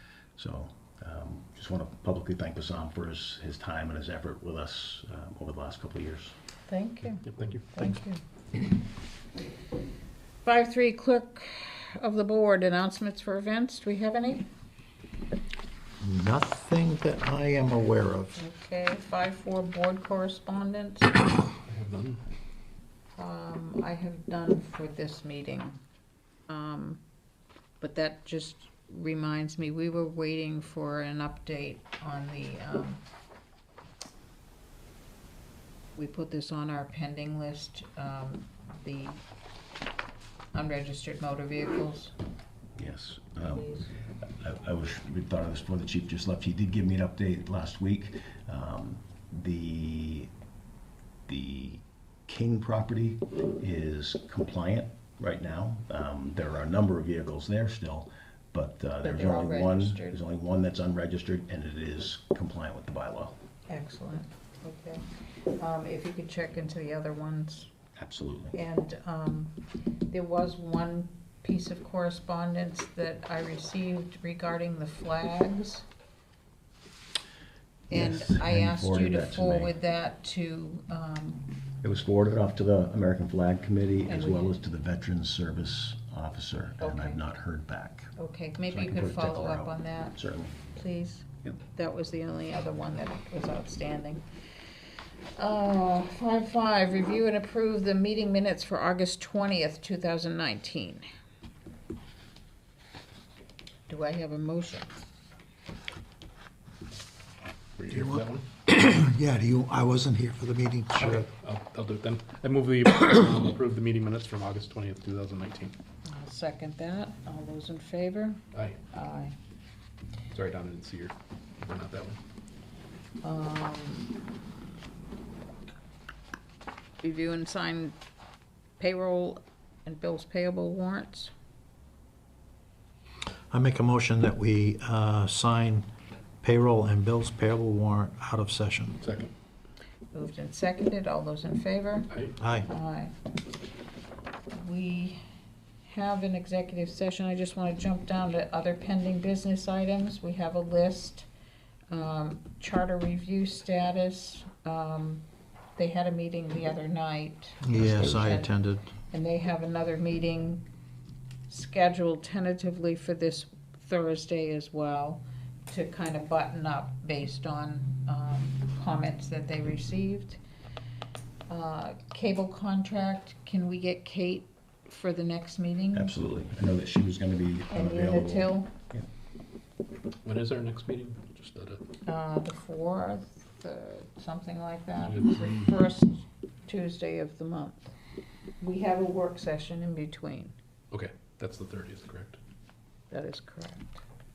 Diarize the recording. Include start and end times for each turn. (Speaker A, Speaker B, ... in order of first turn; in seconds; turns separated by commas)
Speaker A: 0.4-6.3, Speaker B: 6.7-8.2, Speaker C: 7.3-7.7, Speaker B: 10.4-14.5, Speaker D: 16.0-18.4, Speaker B: 18.4-21.2, Speaker C: 21.6-22.2, Speaker B: 23.2-25.8, Speaker B: 26.5-27.0, Speaker B: 27.8-33.0, Speaker B: 36.0-39.2, Speaker B: 40.5-42.1, Speaker A: 42.8-43.7, Speaker B: 43.4-43.9, Speaker A: 44.2-50.3, Speaker A: 51.3-63.4, Speaker B: 59.0-60.2, Speaker B: 63.7-65.0, Speaker B: 65.6-67.7, Speaker A: 68.0-68.6, Speaker B: 68.5-69.5, Speaker B: 70.1-75.8, Speaker B: 77.9-81.5, Speaker A: 77.9-79.7, Speaker A: 81.8-88.1, Speaker B: 84.1-84.6, Speaker B: 86.8-87.2, Speaker B: 88.2-90.2, Speaker A: 88.7-90.5, Speaker B: 90.7-94.2, Speaker B: 95.4-101.0, Speaker B: 103.9-104.9, Speaker C: 107.8-108.5, Speaker D: 107.9-111.2, Speaker C: 111.0-115.8, Speaker B: 116.1-118.4, Speaker C: 118.5-118.8, Speaker B: 118.9-119.4, Speaker C: 120.3-122.2, Speaker B: 123.2-124.2, Speaker B: 127.0-128.0, Speaker B: 128.8-131.3, Speaker D: 133.5-135.9, Speaker D: 136.4-139.0, Speaker C: 139.0-139.3, Speaker B: 140.1-143.1, Speaker D: 142.4-142.7, Speaker B: 144.5-145.2, Speaker B: 145.9-151.3, Speaker B: 151.9-155.2, Speaker B: 155.8-158.5, Speaker D: 157.6-158.9, Speaker B: 159.1-160.7, Speaker B: 161.5-170.4, Speaker B: 171.5-176.1, Speaker A: 175.9-179.1, Speaker B: 177.7-178.7, Speaker C: 180.2-181.8, Speaker B: 182.1-187.9, Speaker C: 185.0-185.7, Speaker B: 188.6-190.5, Speaker C: 190.9-192.4, Speaker B: 193.1-194.0